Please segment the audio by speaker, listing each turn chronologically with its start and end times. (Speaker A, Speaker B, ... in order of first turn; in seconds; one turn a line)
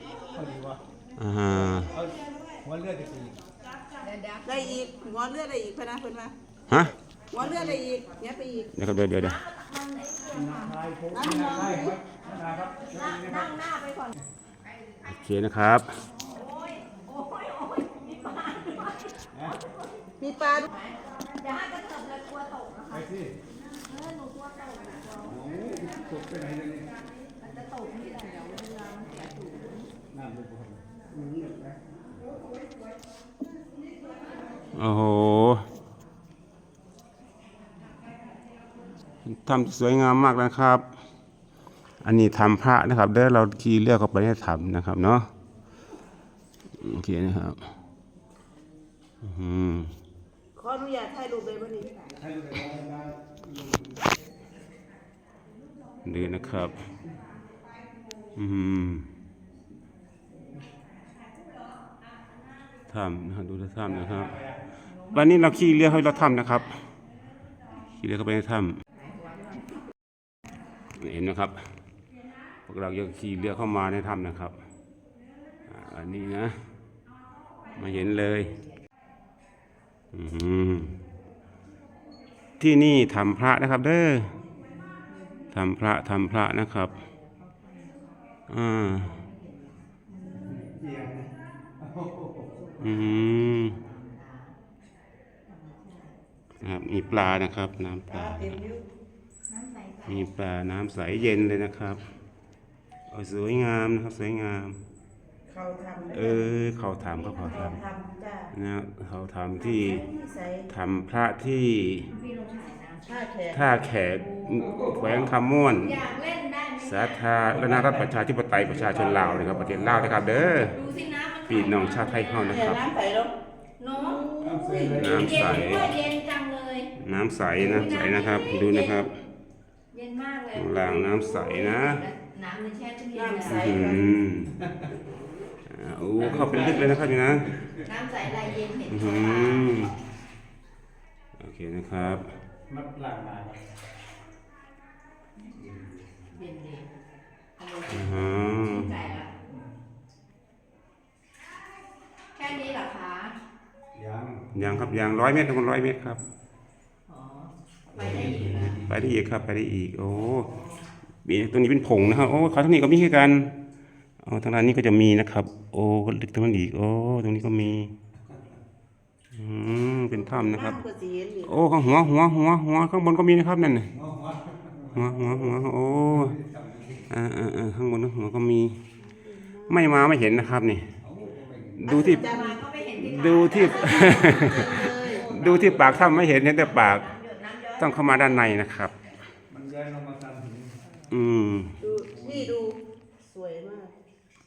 Speaker A: 0.2-0.8
Speaker B: 1.2-1.9
Speaker A: 1.6-3.5
Speaker C: 4.0-4.8
Speaker D: 4.4-6.3
Speaker B: 6.7-6.9
Speaker D: 7.3-8.7
Speaker A: 7.4-7.8
Speaker B: 8.7-9.4
Speaker C: 9.1-11.6
Speaker A: 10.3-13.5
Speaker D: 11.1-12.0
Speaker C: 12.3-14.2
Speaker B: 15.0-15.9
Speaker C: 16.2-19.9
Speaker D: 20.2-20.7
Speaker C: 20.6-23.1
Speaker A: 22.9-23.3
Speaker C: 23.8-25.4
Speaker A: 25.2-26.9
Speaker C: 27.4-29.9
Speaker A: 30.1-31.5
Speaker B: 34.7-35.6
Speaker B: 39.3-40.8
Speaker B: 42.0-45.3
Speaker B: 46.8-47.6
Speaker B: 49.2-49.9
Speaker D: 50.5-51.9
Speaker A: 52.1-54.1
Speaker B: 56.0-56.8
Speaker B: 58.3-59.1
Speaker B: 62.9-64.4
Speaker A: 63.8-64.8
Speaker C: 64.8-66.7
Speaker B: 65.1-66.8
Speaker B: 68.0-68.8
Speaker C: 68.9-69.7
Speaker B: 71.0-71.6
Speaker B: 72.7-74.5
Speaker B: 75.7-76.6
Speaker B: 77.7-78.5
Speaker C: 77.9-78.8
Speaker B: 80.1-80.9
Speaker B: 82.6-84.3
Speaker C: 84.9-85.6
Speaker B: 85.5-86.9
Speaker C: 86.8-88.2
Speaker B: 88.5-89.1
Speaker C: 88.8-90.9
Speaker A: 90.4-92.5
Speaker C: 92.5-94.5
Speaker B: 92.8-93.8
Speaker C: 95.5-96.2
Speaker B: 96.6-98.6
Speaker D: 98.1-98.8
Speaker C: 99.5-100.3
Speaker B: 100.1-102.0
Speaker B: 103.1-104.8
Speaker D: 105.5-106.6
Speaker B: 106.1-107.8
Speaker C: 107.0-107.8
Speaker D: 107.5-108.5
Speaker B: 108.5-110.1
Speaker D: 109.7-110.7
Speaker B: 110.7-112.1
Speaker C: 112.1-113.2
Speaker D: 113.0-113.8
Speaker B: 113.5-115.9
Speaker C: 114.1-115.1
Speaker A: 114.6-115.4
Speaker C: 115.7-117.5
Speaker B: 116.8-120.7
Speaker A: 117.5-120.7
Speaker C: 120.5-122.8
Speaker B: 121.5-122.8
Speaker D: 122.5-123.3
Speaker C: 123.8-124.2
Speaker D: 123.9-125.1
Speaker A: 124.4-125.9
Speaker B: 125.0-125.9
Speaker C: 125.1-126.9
Speaker B: 127.0-129.1
Speaker C: 127.6-129.1
Speaker C: 129.9-133.9
Speaker B: 130.5-132.0
Speaker D: 133.1-134.1
Speaker B: 133.4-134.5
Speaker A: 134.6-134.9
Speaker B: 135.7-137.5
Speaker A: 136.2-137.8
Speaker C: 136.2-137.0
Speaker C: 137.8-139.9
Speaker B: 138.9-139.9
Speaker B: 141.4-142.2
Speaker A: 142.7-143.6
Speaker A: 145.5-146.1
Speaker C: 146.3-146.9
Speaker C: 147.6-149.3
Speaker B: 147.9-148.9
Speaker C: 152.3-153.4
Speaker A: 153.9-155.2
Speaker B: 154.5-156.2
Speaker C: 157.1-158.8
Speaker A: 157.9-159.2
Speaker B: 158.8-160.5
Speaker C: 160.4-160.8
Speaker B: 161.2-163.5
Speaker B: 164.2-167.9
Speaker B: 169.3-170.8
Speaker D: 170.1-171.6
Speaker B: 171.4-173.9
Speaker A: 173.9-177.1
Speaker B: 174.9-176.3
Speaker B: 177.1-178.8
Speaker D: 179.0-180.2
Speaker B: 179.7-180.9
Speaker A: 181.0-182.0
Speaker B: 181.8-182.4
Speaker D: 181.8-182.6
Speaker C: 181.9-184.6
Speaker B: 183.0-187.1
Speaker D: 183.5-185.3
Speaker A: 184.1-186.4
Speaker C: 185.6-188.6
Speaker B: 187.8-188.9
Speaker A: 189.5-190.8
Speaker C: 190.8-191.2
Speaker B: 191.1-191.8
Speaker D: 191.8-193.9
Speaker A: 192.0-192.5